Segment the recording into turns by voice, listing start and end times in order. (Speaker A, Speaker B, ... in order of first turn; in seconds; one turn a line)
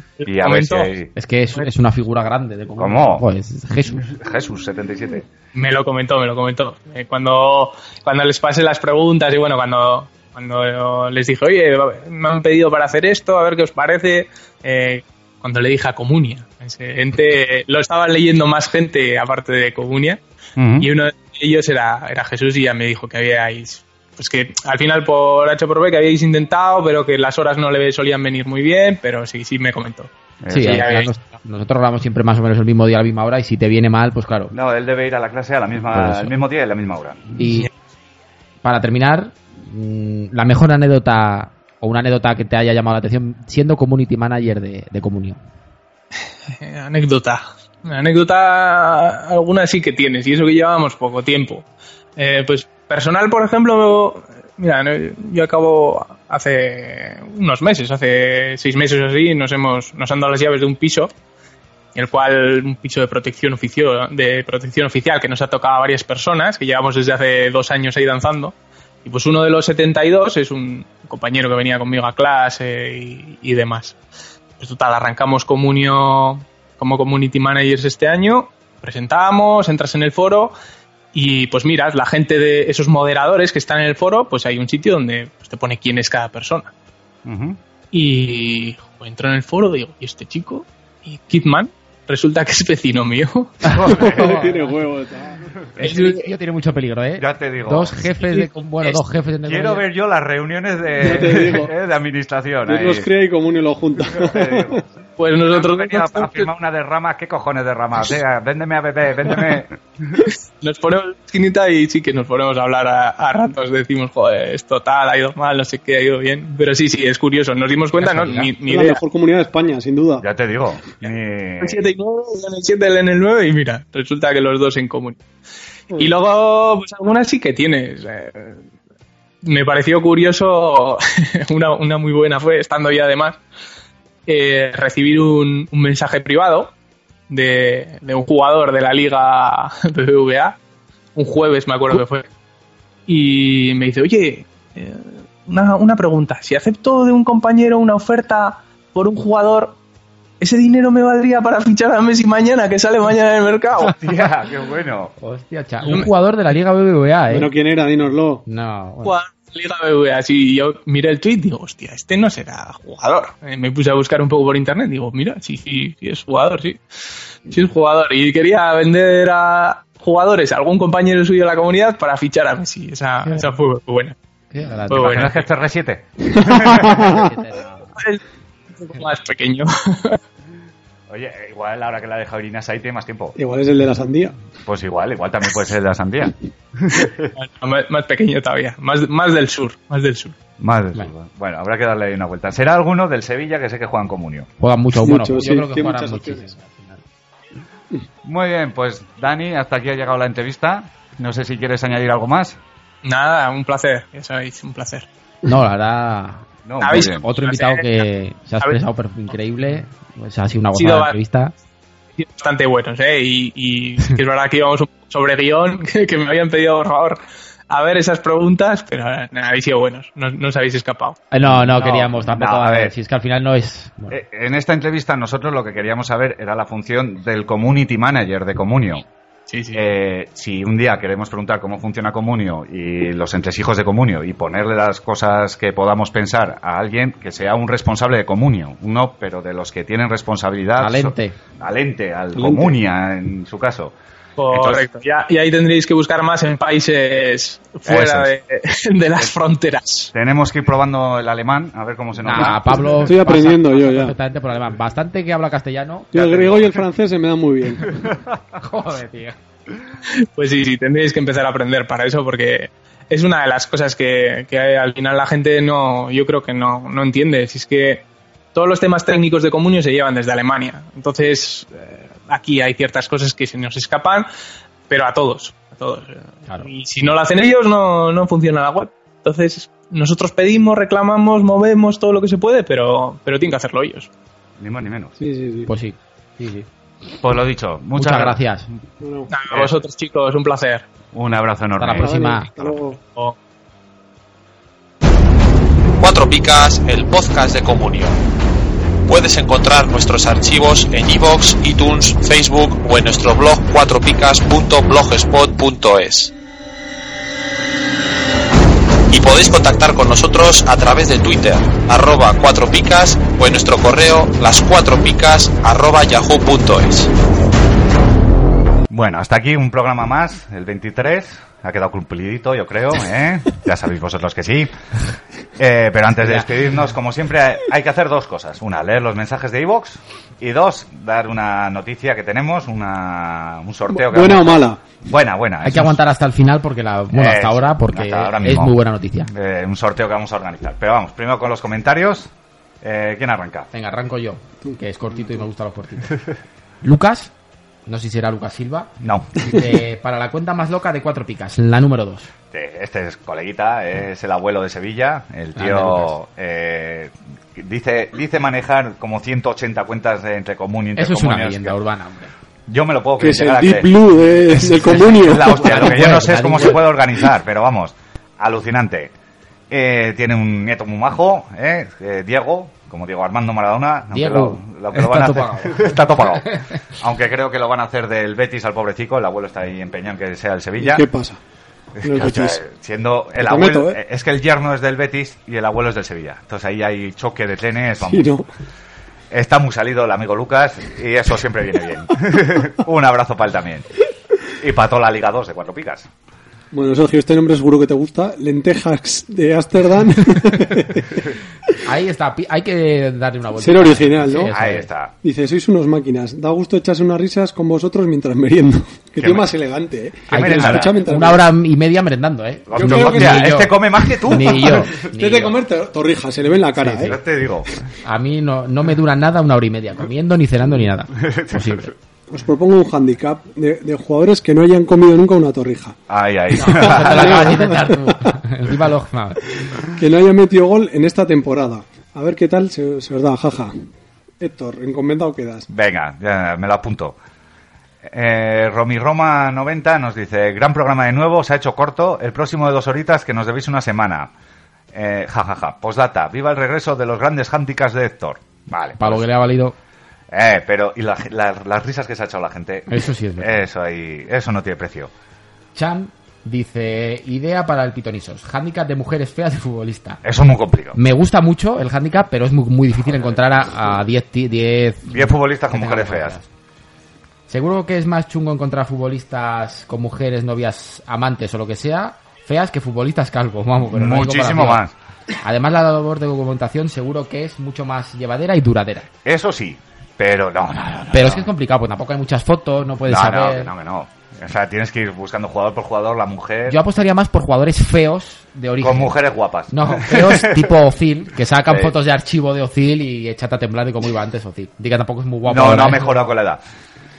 Speaker A: 0.2-0.9
Speaker B: 0.2-1.1
Speaker C: 1.1-4.0
Speaker B: 2.8-3.2
Speaker B: 4.0-5.3
Speaker A: 5.5-20.2
Speaker B: 20.6-20.9
Speaker A: 20.8-31.1
Speaker B: 30.4-30.9
Speaker C: 30.5-34.5
Speaker B: 34.5-37.2
Speaker C: 35.9-36.3
Speaker C: 37.4-37.7
Speaker C: 38.6-45.4
Speaker A: 46.6-61.1
Speaker A: 61.9-74.0
Speaker A: 74.6-80.5
Speaker A: 81.1-86.7
Speaker B: 87.2-87.6
Speaker A: 87.9-93.6
Speaker C: 93.7-94.7
Speaker B: 93.7-94.5
Speaker D: 94.0-95.5
Speaker C: 95.8-99.8
Speaker A: 95.8-96.3
Speaker B: 97.2-98.0
Speaker B: 99.5-103.1
Speaker D: 101.0-101.7
Speaker D: 102.7-104.8
Speaker B: 104.1-104.9
Speaker A: 105.2-106.5
Speaker B: 105.5-109.8
Speaker A: 110.6-119.0
Speaker C: 118.0-118.5
Speaker D: 118.6-120.2
Speaker B: 120.2-121.8
Speaker A: 121.6-125.2
Speaker A: 125.9-128.6
Speaker A: 129.4-133.4
Speaker A: 134.3-136.7
Speaker A: 137.3-140.6
Speaker A: 141.1-142.3
Speaker A: 143.1-149.8
Speaker A: 150.4-153.9
Speaker B: 153.9-155.1
Speaker C: 155.2-157.5
Speaker D: 157.3-158.4
Speaker C: 158.5-159.1
Speaker A: 159.0-166.8
Speaker A: 167.5-174.1
Speaker C: 174.5-175.3
Speaker B: 174.9-177.2
Speaker A: 174.9-175.4
Speaker D: 176.3-177.2
Speaker C: 176.7-177.9
Speaker A: 177.9-178.2
Speaker A: 178.8-180.2
Speaker B: 181.1-183.4
Speaker D: 183.4-184.3
Speaker B: 184.7-187.3
Speaker A: 187.3-190.3
Speaker B: 190.6-194.5
Speaker C: 194.6-197.0
Speaker D: 195.0-196.5
Speaker B: 198.2-202.6
Speaker A: 203.0-205.1
Speaker C: 205.4-211.5
Speaker B: 206.6-207.2
Speaker A: 206.8-208.0
Speaker A: 210.7-211.2
Speaker A: 212.2-221.2
Speaker C: 221.3-224.2
Speaker B: 221.5-222.9
Speaker A: 221.7-222.1
Speaker B: 224.1-229.1
Speaker A: 229.5-229.8
Speaker B: 229.7-243.9
Speaker C: 240.8-241.4
Speaker D: 242.3-242.7
Speaker A: 244.4-250.1
Speaker B: 244.5-244.9
Speaker B: 247.8-248.3
Speaker B: 250.1-252.9
Speaker C: 252.2-256.5
Speaker D: 253.0-254.1
Speaker D: 256.1-258.1
Speaker C: 258.6-259.4
Speaker A: 260.3-274.3
Speaker A: 274.9-284.1
Speaker B: 284.6-285.1
Speaker D: 285.2-285.7
Speaker C: 285.7-286.7
Speaker B: 287.2-288.4
Speaker C: 287.9-288.7
Speaker D: 289.0-289.3
Speaker A: 289.3-290.9
Speaker B: 291.1-292.1
Speaker C: 291.8-292.5
Speaker D: 291.9-293.0
Speaker A: 292.6-293.4
Speaker E: 296.0-298.2
Speaker E: 299.1-306.3
Speaker E: 309.1-317.1
Speaker B: 318.9-324.7
Speaker B: 325.6-336.0
Speaker C: 326.2-326.5
Speaker D: 333.9-334.8
Speaker C: 335.6-339.3
Speaker B: 337.1-342.3
Speaker B: 342.8-343.7
Speaker C: 343.7-346.2
Speaker C: 346.8-347.3
Speaker C: 347.9-352.3
Speaker B: 349.0-349.5
Speaker B: 352.5-361.8
Speaker C: 355.6-356.1
Speaker C: 360.9-362.3
Speaker B: 362.7-363.9
Speaker D: 363.2-365.8
Speaker B: 364.5-369.1
Speaker C: 364.6-366.9
Speaker B: 369.7-381.1
Speaker C: 374.1-376.6
Speaker D: 380.8-381.4
Speaker B: 381.9-388.3
Speaker D: 382.0-382.6
Speaker D: 383.4-384.0
Speaker D: 388.0-388.5
Speaker B: 389.3-393.9
Speaker B: 394.6-396.1
Speaker D: 396.7-401.2
Speaker C: 401.8-404.9
Speaker D: 403.6-404.5
Speaker B: 404.5-405.1
Speaker D: 405.2-411.4
Speaker B: 409.2-409.5
Speaker B: 410.3-410.9
Speaker C: 410.3-415.6
Speaker B: 412.7-414.9
Speaker D: 412.7-413.5
Speaker D: 414.2-417.2
Speaker C: 416.8-417.1
Speaker B: 417.0-417.7
Speaker C: 418.0-421.9
Speaker B: 421.2-421.8
Speaker D: 422.3-426.0
Speaker B: 426.1-427.8
Speaker C: 426.5-429.4
Speaker D: 426.7-428.3
Speaker D: 429.9-433.7
Speaker D: 434.4-435.7
Speaker B: 435.7-437.1
Speaker B: 438.0-444.3
Speaker B: 444.9-449.2
Speaker C: 449.0-449.8
Speaker B: 450.3-455.1
Speaker C: 452.9-453.6
Speaker C: 455.7-460.2
Speaker B: 460.2-461.0
Speaker C: 460.9-466.5
Speaker B: 465.1-466.4
Speaker C: 467.5-474.8
Speaker B: 473.9-474.9
Speaker C: 475.4-479.1
Speaker B: 479.2-481.5
Speaker C: 481.1-483.7
Speaker B: 483.1-486.8
Speaker C: 486.7-489.2
Speaker B: 488.8-490.7
Speaker C: 489.7-496.1
Speaker B: 491.6-491.9
Speaker B: 495.4-496.6